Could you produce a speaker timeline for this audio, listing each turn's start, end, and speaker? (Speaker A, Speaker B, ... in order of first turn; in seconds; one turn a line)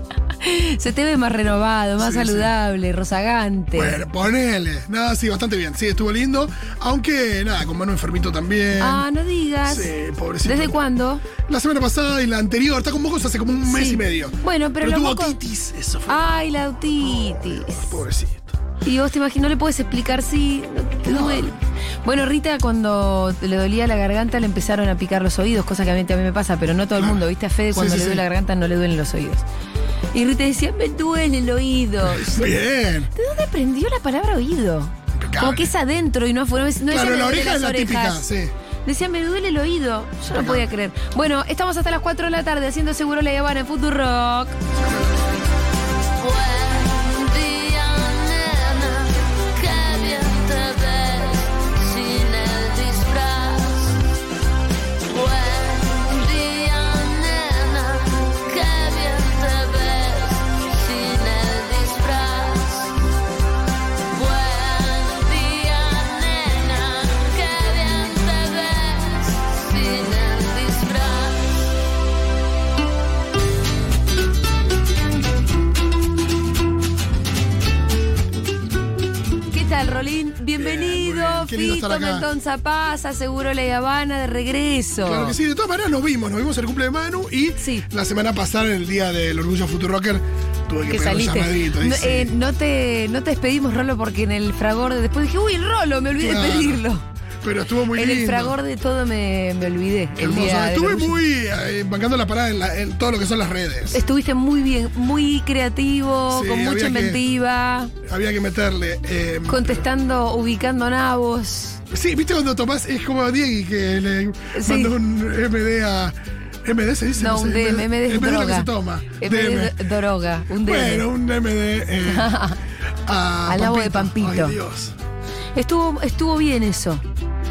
Speaker A: 0.4-4.0
Speaker B: 2.0-2.5
Speaker B: 3.7-9.0
Speaker A: 8.8-9.9
Speaker B: 9.7-10.8
Speaker A: 10.4-11.2
Speaker B: 11.4-16.3
Speaker A: 13.7-15.4
Speaker A: 16.1-17.9
Speaker B: 16.8-18.5
Speaker A: 18.8-29.4
Speaker B: 21.0-21.5
Speaker B: 26.9-27.2
Speaker B: 27.7-28.2
Speaker A: 30.1-32.5
Speaker B: 32.0-33.1
Speaker A: 33.1-38.2
Speaker B: 35.1-35.7
Speaker B: 36.9-38.5
Speaker A: 38.8-44.6
Speaker B: 40.3-40.6
Speaker B: 44.7-45.2
Speaker C: 46.2-54.0
Speaker C: 55.1-63.0
Speaker C: 64.1-71.7
Speaker A: 79.5-85.4
Speaker B: 80.6-82.3
Speaker B: 85.0-92.3
Speaker A: 87.6-87.9
Speaker A: 90.9-97.0
Speaker B: 96.2-96.8
Speaker B: 97.4-98.5
Speaker A: 97.9-101.2
Speaker B: 100.2-104.0
Speaker A: 103.9-107.9
Speaker B: 106.3-107.2
Speaker B: 108.0-109.8
Speaker A: 109.5-111.8
Speaker B: 111.9-119.9
Speaker A: 114.5-115.0
Speaker A: 117.2-121.1
Speaker B: 120.5-122.4
Speaker A: 122.0-122.6
Speaker B: 123.0-124.9
Speaker A: 123.5-124.6
Speaker A: 125.5-127.0